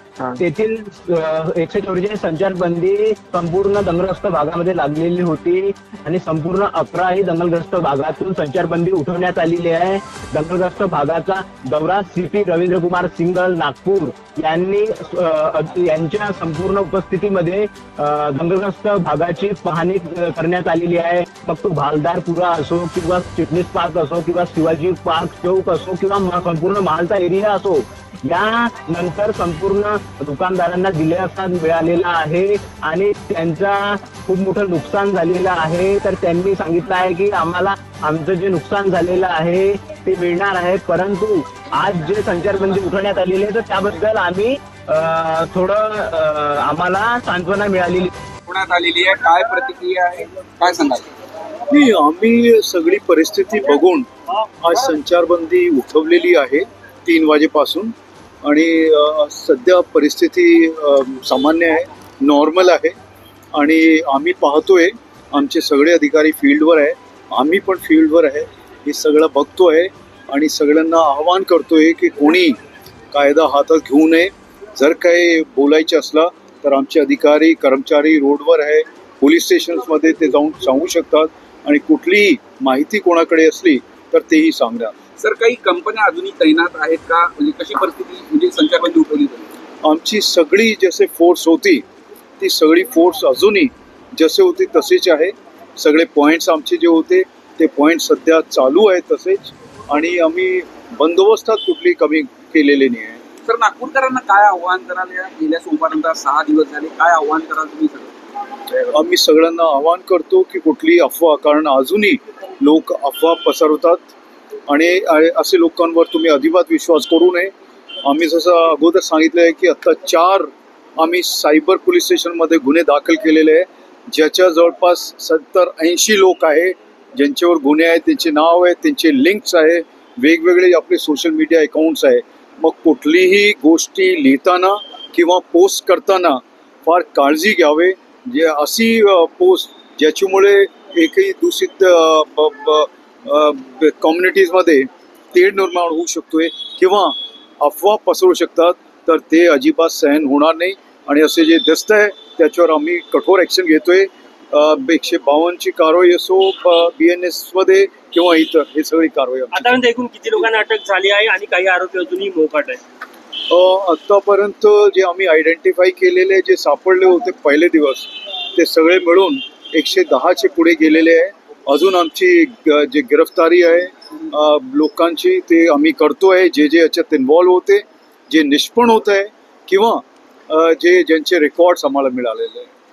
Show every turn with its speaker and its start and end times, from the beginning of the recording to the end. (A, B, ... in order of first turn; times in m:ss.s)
0:00.4-0:48.1 A
0:48.4-0:51.0 B
0:51.7-0:54.1 C
0:54.6-0:57.9 C
0:58.4-1:02.9 C
1:03.5-1:12.6 C
1:13.1-1:24.9 C
1:25.2-1:29.5 B
1:29.8-1:31.8 C
1:32.4-1:43.2 C
1:43.4-1:48.1 B
1:48.9-1:54.0 C
1:54.7-1:57.5 C
1:58.0-2:39.8 C
2:39.5-2:42.8 D
2:43.5-3:02.7 C